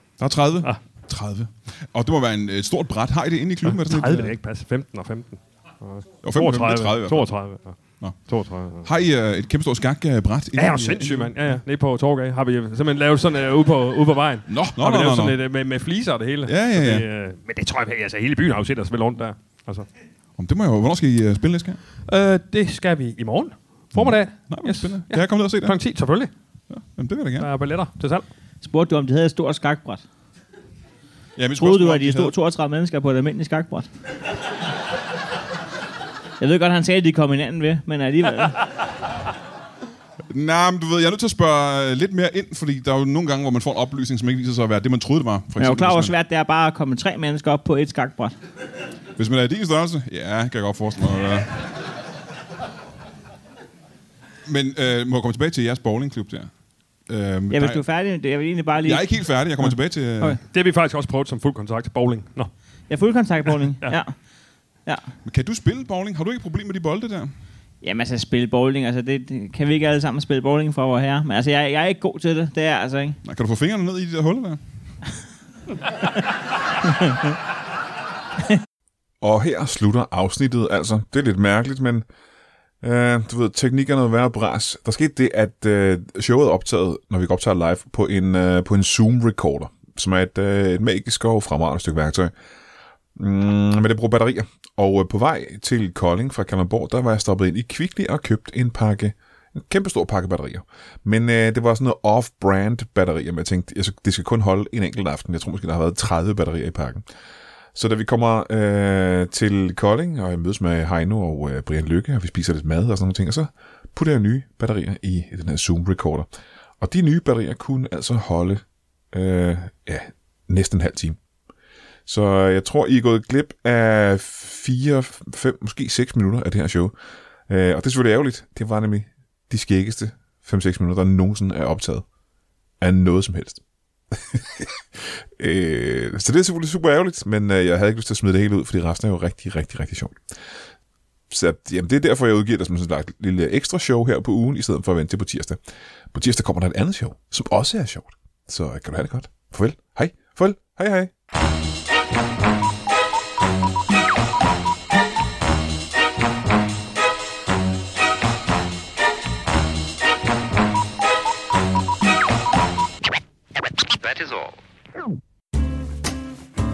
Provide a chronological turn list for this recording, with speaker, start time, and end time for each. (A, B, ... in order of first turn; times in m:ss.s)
0:00.2-0:04.3 A
0:03.6-0:08.9 B
0:06.2-0:07.3 A
0:08.8-0:11.4 A
0:10.6-0:19.9 B
0:14.5-0:15.4 A
0:16.5-0:17.0 A
0:20.4-0:21.8 A
0:22.1-0:26.3 B
0:24.0-0:25.8 A
0:26.7-0:27.5 A
0:27.4-0:28.2 B
0:28.6-0:30.0 C
0:31.4-0:32.4 A
0:31.6-0:33.9 C
0:36.4-0:38.6 C
0:40.3-0:46.1 A
0:45.6-0:48.4 C
0:49.2-0:51.6 A
0:54.4-0:56.5 A
0:57.1-0:57.8 A
0:57.5-0:59.1 C
0:58.8-1:00.4 A
1:00.5-1:02.5 B
1:02.9-1:04.2 C
1:05.2-1:07.3 A
1:07.8-1:13.2 C
1:13.2-1:14.6 A
1:19.2-1:22.0 D
1:22.8-1:32.3 D
1:33.2-1:47.0 D
1:47.8-1:56.3 D
1:56.8-2:01.2 D
2:02.1-2:06.9 D
2:07.5-2:12.1 D
2:12.8-2:13.6 D
2:14.3-2:20.2 D
2:21.3-2:25.6 D
2:26.1-2:31.1 D